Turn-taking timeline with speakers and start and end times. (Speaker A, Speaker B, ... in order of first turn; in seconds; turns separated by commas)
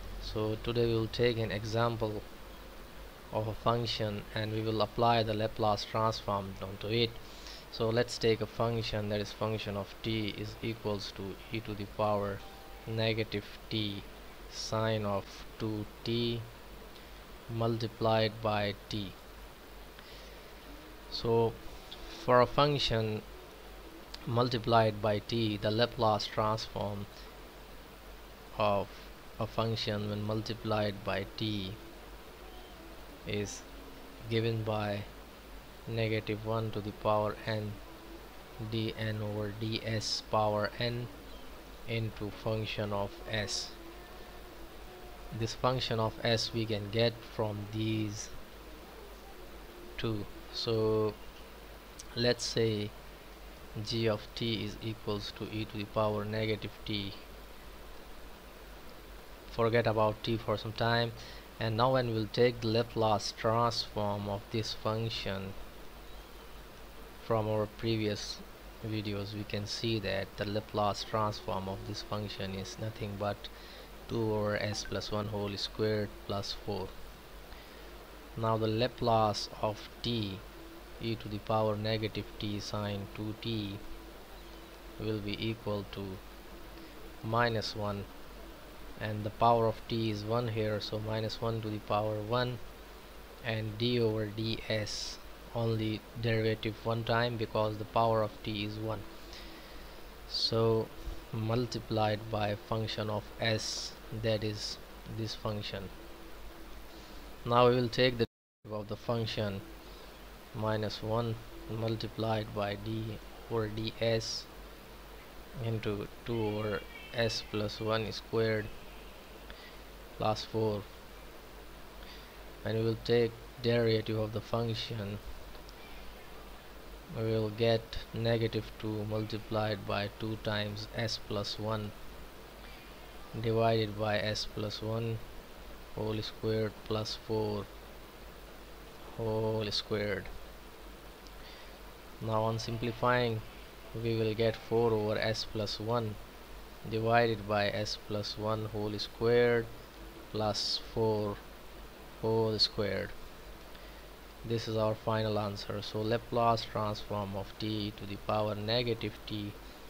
Speaker A: 0.2-2.2, Speaker A: 3.3-16.5, Speaker A: 17.5-19.2, Speaker A: 21.1-23.2, Speaker A: 24.2-27.1, Speaker A: 28.6-31.8, Speaker A: 33.2-33.7, Speaker A: 34.2-35.1, Speaker A: 35.9-37.8, Speaker A: 38.6-41.1, Speaker A: 41.9-43.8, Speaker A: 45.3-48.3, Speaker A: 50.0-51.2, Speaker A: 52.1-53.0, Speaker A: 53.7-57.2, Speaker A: 59.5-65.5, Speaker A: 67.2-73.5, Speaker A: 74.1-76.9, Speaker A: 78.3-80.4, Speaker A: 81.0-83.8, Speaker A: 85.0-86.2, Speaker A: 87.2-88.1, Speaker A: 89.0-92.6, Speaker A: 93.4-99.1, Speaker A: 100.3-105.9, Speaker A: 107.4-109.6, Speaker A: 110.5-114.5, Speaker A: 115.6-118.7, Speaker A: 120.2-120.9, Speaker A: 122.6-125.2, Speaker A: 127.1-131.9, Speaker A: 133.3-135.2, Speaker A: 135.9-137.7, Speaker A: 139.1-140.3, Speaker A: 142.2-146.2, Speaker A: 146.8-149.7, Speaker A: 150.3-151.4, Speaker A: 152.2-153.2, Speaker A: 154.4-159.6